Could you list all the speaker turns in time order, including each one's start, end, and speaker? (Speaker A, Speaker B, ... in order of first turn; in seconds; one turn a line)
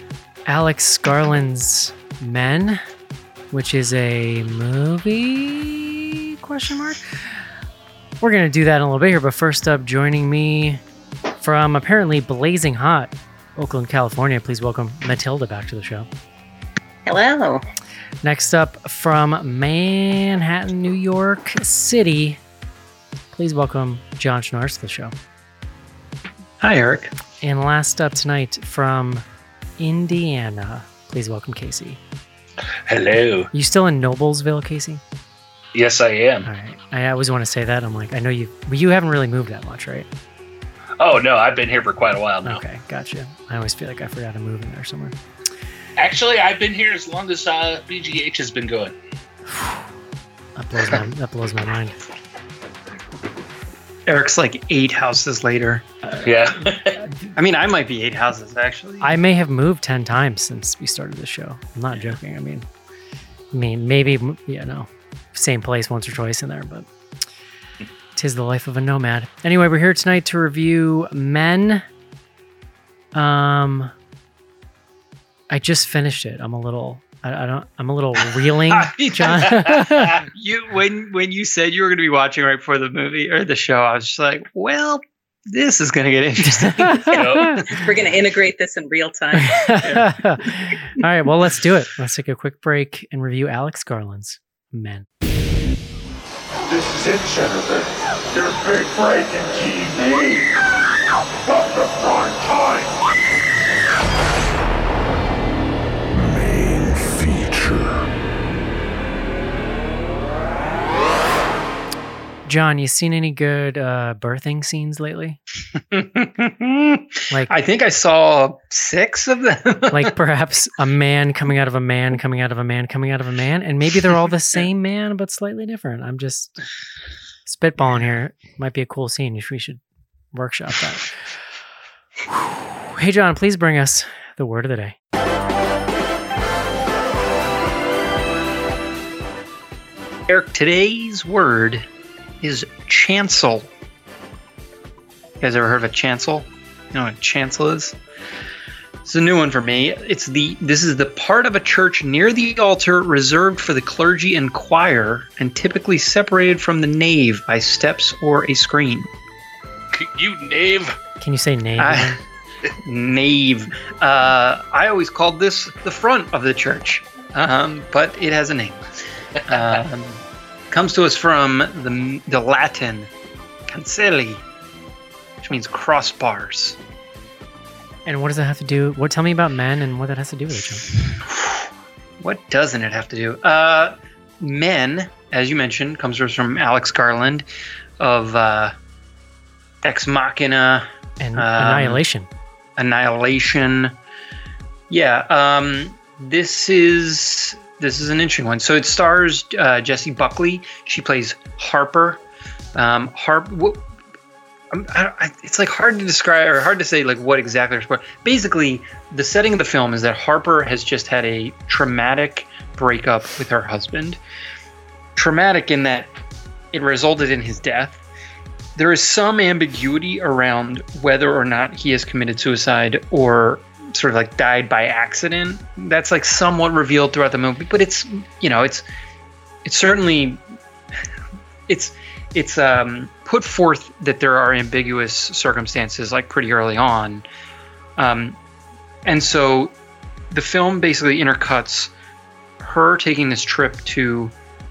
Speaker A: 0.5-2.8
Speaker A: 3.5-7.4
Speaker A: 8.2-10.8
Speaker A: 11.4-16.1
Speaker B: 17.1-17.6
Speaker A: 18.2-22.4
Speaker A: 23.3-25.1
Speaker C: 26.6-27.1
Speaker A: 27.4-29.2
Speaker A: 29.8-32.0
Speaker D: 32.9-33.5
Speaker A: 33.5-35.0
Speaker D: 35.8-36.5
Speaker A: 36.5-40.1
Speaker D: 41.0-42.6
Speaker A: 42.4-45.2
Speaker D: 46.0-48.9
Speaker A: 49.5-49.9
Speaker A: 50.6-52.0
Speaker C: 54.1-55.9
Speaker D: 56.2-57.0
Speaker C: 57.3-59.1
Speaker A: 59.0-62.7
Speaker A: 63.5-66.9
Speaker A: 68.2-71.8
Speaker A: 73.1-73.9
Speaker A: 75.5-80.2
Speaker C: 78.7-87.4
Speaker A: 86.4-87.7
Speaker D: 87.1-87.6
Speaker B: 87.7-89.6
Speaker A: 89.4-95.1
Speaker C: 89.8-90.2
Speaker E: 96.8-97.8
Speaker E: 98.4-100.5
Speaker E: 102.0-102.8
Speaker E: 106.1-108.1
Speaker A: 112.5-115.4
Speaker C: 115.9-120.1
Speaker A: 119.9-126.5
Speaker A: 127.5-129.8
Speaker A: 130.3-131.1
Speaker A: 132.3-135.0
Speaker C: 140.3-141.9
Speaker C: 142.4-143.7
Speaker C: 145.4-148.0
Speaker C: 149.1-159.1
Speaker D: 159.9-161.0
Speaker A: 161.2-162.2
Speaker C: 161.8-162.2
Speaker C: 162.8-168.8
Speaker C: 169.5-173.1
Speaker C: 173.7-174.4
Speaker C: 175.4-176.8
Speaker A: 178.1-180.9
Speaker C: 182.2-187.5
Speaker C: 188.0-188.8
Speaker C: 189.8-192.0
Speaker A: 191.2-192.3
Speaker C: 192.8-193.9
Speaker C: 194.9-202.2
Speaker C: 202.8-203.8
Speaker C: 204.7-214.2
Speaker C: 215.2-216.2
Speaker C: 216.7-218.0
Speaker C: 218.8-228.8
Speaker C: 229.7-230.4
Speaker C: 231.7-237.2
Speaker C: 238.0-238.4
Speaker C: 239.1-239.7
Speaker C: 240.3-241.9
Speaker C: 242.6-244.3